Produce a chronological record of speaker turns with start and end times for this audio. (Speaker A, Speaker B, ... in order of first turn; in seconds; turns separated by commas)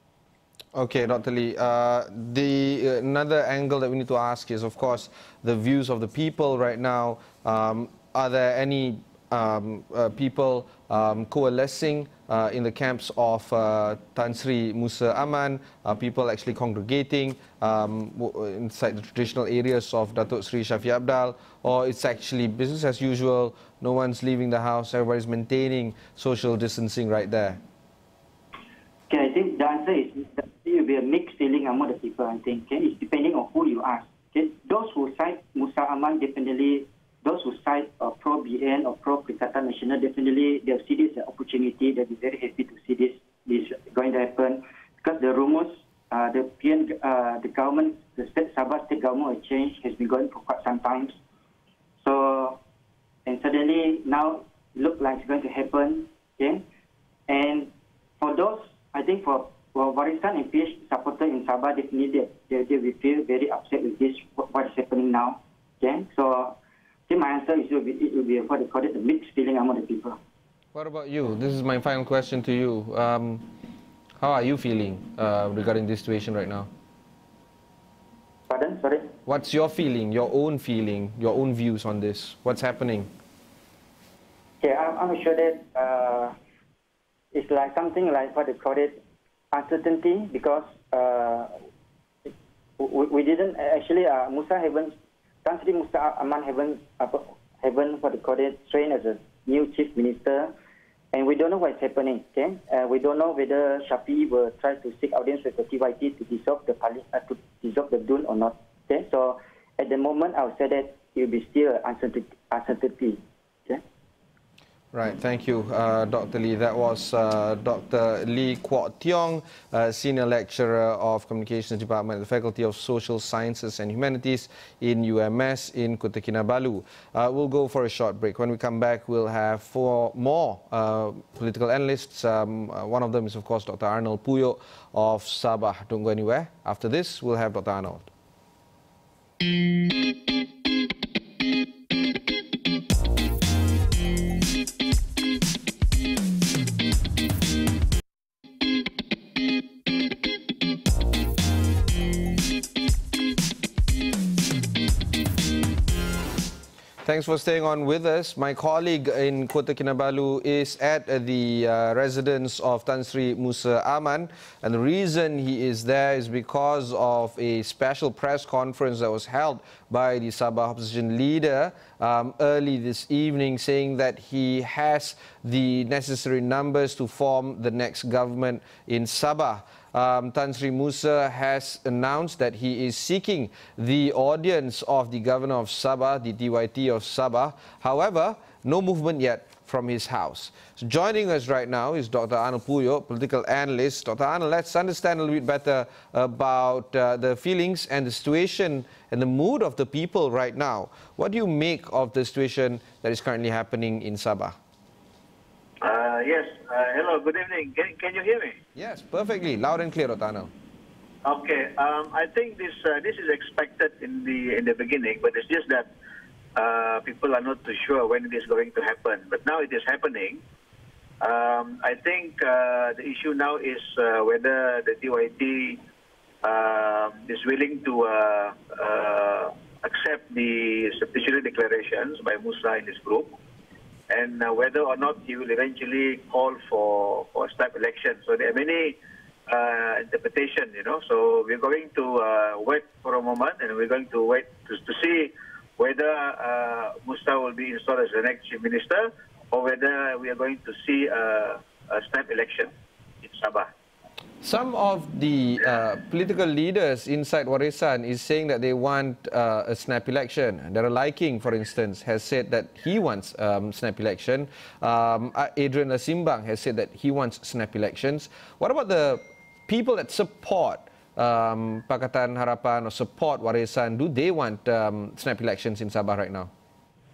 Speaker A: 0.7-27.6, Speaker B: 29.1-51.2, Speaker B: 52.0-52.6, Speaker B: 53.3-56.6, Speaker B: 57.3-66.6, Speaker B: 67.1-70.2, Speaker A: 70.7-73.5, Speaker A: 74.2-76.7, Speaker B: 78.5-79.1, Speaker A: 79.3-83.1, Speaker B: 84.6-86.4, Speaker B: 87.3-89.0, Speaker B: 89.5-91.6, Speaker B: 92.3-100.5, Speaker B: 101.1-113.8, Speaker A: 114.9-138.1, Speaker A: 157.0-204.6, Speaker C: 205.8-208.6, Speaker A: 208.8-210.5, Speaker C: 211.2-215.9, Speaker C: 216.6-220.4, Speaker C: 221.2-225.8, Speaker C: 226.4-233.4, Speaker C: 234.1-252.7, Speaker C: 253.2-253.7, Speaker A: 254.4-276.5